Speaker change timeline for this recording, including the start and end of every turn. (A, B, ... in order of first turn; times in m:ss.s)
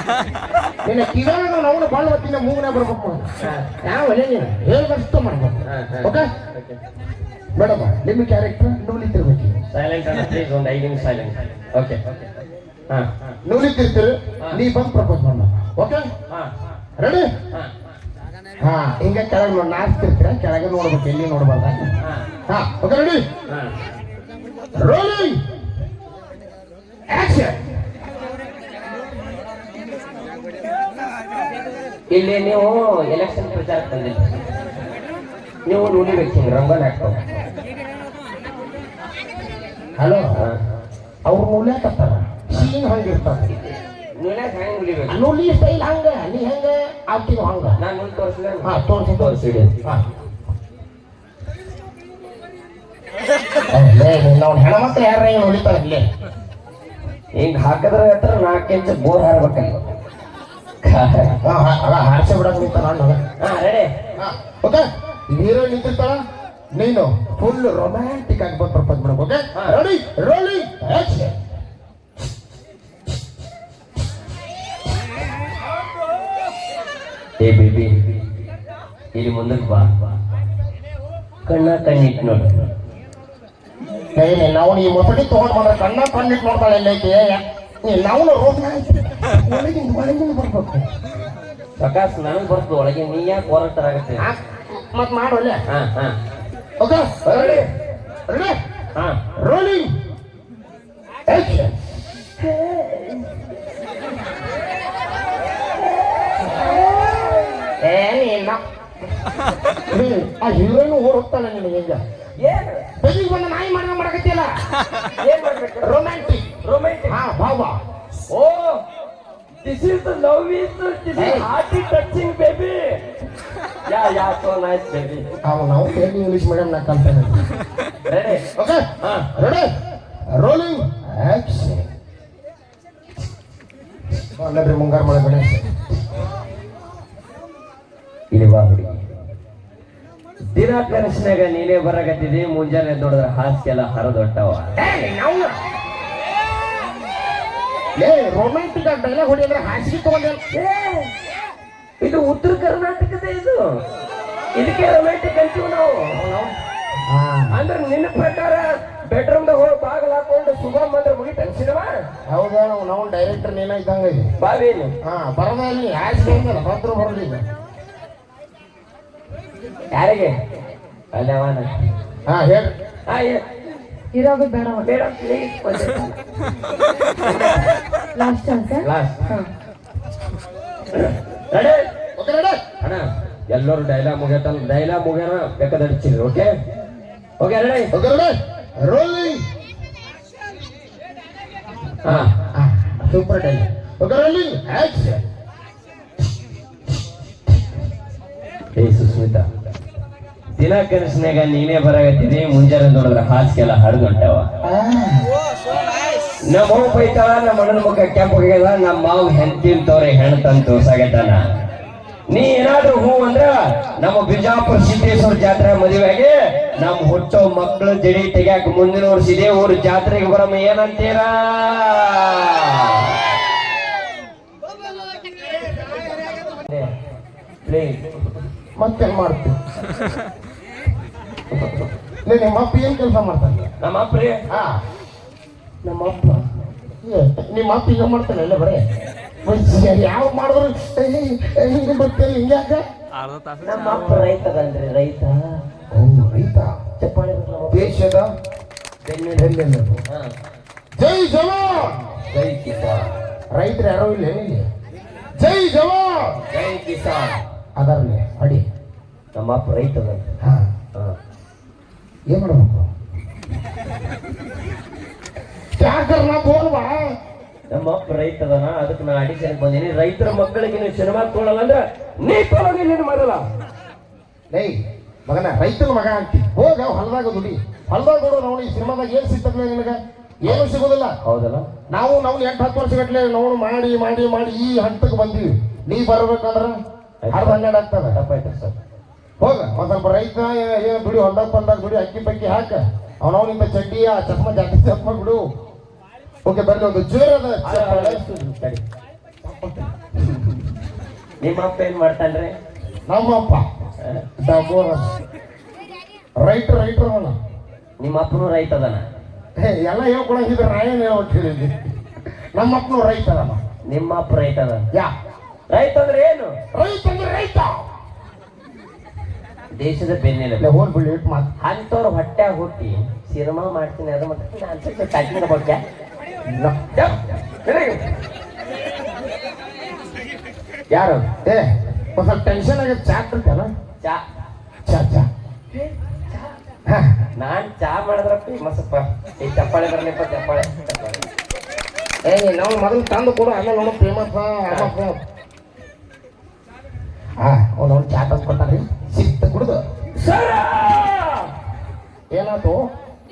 0:00.8-0:06.3 A
0:03.4-0:03.7 B
0:05.6-0:06.8 B
0:07.6-0:09.6 A
0:09.7-0:12.3 B
0:12.9-0:13.4 B
0:13.4-0:16.1 A
0:17.0-0:17.3 A
0:18.6-0:22.0 A
0:22.0-0:22.3 B
0:22.5-0:23.3 A
0:24.8-0:25.4 A
0:27.1-0:27.6 A
0:32.1-0:34.3 B
0:35.7-0:37.2 B
0:40.0-0:40.4 A
0:41.3-0:43.5 A
0:44.2-0:45.2 B
0:45.1-0:47.8 A
0:47.8-0:49.8 B
0:48.6-0:50.0 A
0:53.7-0:56.1 A
0:57.4-0:59.9 B
1:00.8-1:01.4 B
1:01.4-1:03.2 A
1:03.4-1:03.9 B
1:04.2-1:06.2 A
1:06.7-1:11.4 A
1:17.4-1:18.2 B
1:19.2-1:19.9 B
1:21.5-1:22.5 B
1:24.2-1:30.9 A
1:31.8-1:34.3 B
1:34.2-1:35.6 A
1:35.7-1:36.2 B
1:36.8-1:37.7 A
1:37.3-1:37.7 B
1:38.3-1:38.6 A
1:39.0-1:39.2 B
1:39.4-1:39.9 A
1:41.3-1:41.8 A
1:42.4-1:43.3 B
1:47.8-1:48.6 A
1:49.9-1:52.0 A
1:52.4-1:52.9 B
1:53.0-1:54.6 A
1:55.2-1:55.9 B
1:55.8-1:56.5 A
1:56.6-1:57.2 B
1:57.1-1:57.8 A
1:58.3-1:58.8 B
1:59.6-2:03.0 B
2:01.2-2:01.5 A
2:03.9-2:05.3 B
2:05.4-2:07.4 A
2:08.1-2:08.4 B
2:08.6-2:09.7 A
2:09.0-2:09.3 B
2:10.3-2:11.9 A
2:14.4-2:15.8 A
2:18.3-2:19.0 B
2:20.5-2:24.8 B
2:24.8-2:25.6 A
2:28.0-2:30.4 A
2:30.5-2:31.1 B
2:32.0-2:33.8 B
2:34.6-2:36.2 B
2:36.2-2:37.6 A
2:37.5-2:42.0 B
2:42.3-2:44.3 A
2:44.4-2:44.9 B
2:45.0-2:47.4 A
2:49.9-2:50.3 B
2:51.1-2:51.7 B
2:52.3-2:52.8 A
2:53.1-2:53.4 B
2:54.1-2:54.9 C
2:54.8-2:56.2 B
2:57.3-2:57.6 B
2:58.2-2:59.5 C
2:58.8-2:59.2 B
3:00.9-3:01.8 B
3:02.2-3:02.6 A
3:02.8-3:06.6 B
3:07.4-3:07.9 B
3:07.9-3:09.5 A
3:12.0-3:12.3 B
3:12.1-3:15.2 A
3:18.8-3:19.5 B
3:20.6-3:24.5 B
3:24.6-3:25.3 A
3:26.5-3:31.4 B
3:32.3-3:43.1 B
3:47.6-3:48.0 B
3:48.8-3:49.6 A
3:52.2-3:53.7 A
3:53.8-3:54.4 B
3:54.5-3:54.8 A
3:55.8-3:56.4 B
3:57.0-3:58.8 A
3:59.4-4:02.8 A
4:03.6-4:05.6 B
4:05.9-4:06.8 A
4:07.0-4:08.0 B
4:07.7-4:08.3 A
4:09.0-4:09.6 B
4:09.4-4:10.0 A
4:11.0-4:12.0 A
4:12.3-4:13.1 B
4:13.5-4:14.7 A
4:15.4-4:16.4 A
4:16.5-4:17.4 B
4:17.8-4:18.7 A
4:19.4-4:20.3 B
4:20.4-4:20.7 A
4:22.3-4:22.9 A
4:25.8-4:27.2 A
4:27.7-4:33.5 B
4:34.5-4:41.2 A
4:41.2-4:41.7 B
4:41.9-4:46.8 A
4:47.2-4:47.6 B
4:47.3-4:48.2 A
4:48.1-4:48.8 B
4:49.4-4:55.5 A
4:56.4-4:58.2 A
4:57.6-4:58.8 B
4:59.4-4:59.9 A
5:01.4-5:02.6 B
5:03.1-5:03.7 A
5:04.4-5:05.1 A
5:06.4-5:07.4 A
5:08.0-5:09.1 B
5:09.6-5:11.8 A
5:12.6-5:13.6 A
5:13.9-5:14.9 B
5:15.7-5:16.6 B
5:16.7-5:17.8 A
5:19.8-5:20.7 B
5:20.6-5:21.5 A
5:21.6-5:25.8 B
5:26.5-5:26.8 A
5:26.9-5:28.0 B
5:30.9-5:31.3 B
5:31.4-5:33.7 A
5:34.9-5:35.3 A
5:35.7-5:36.6 B
5:36.9-5:37.2 A
5:37.4-5:41.2 B
5:42.3-5:45.2 A
5:47.4-5:49.9 A
5:50.2-5:51.5 B
5:52.3-5:52.9 A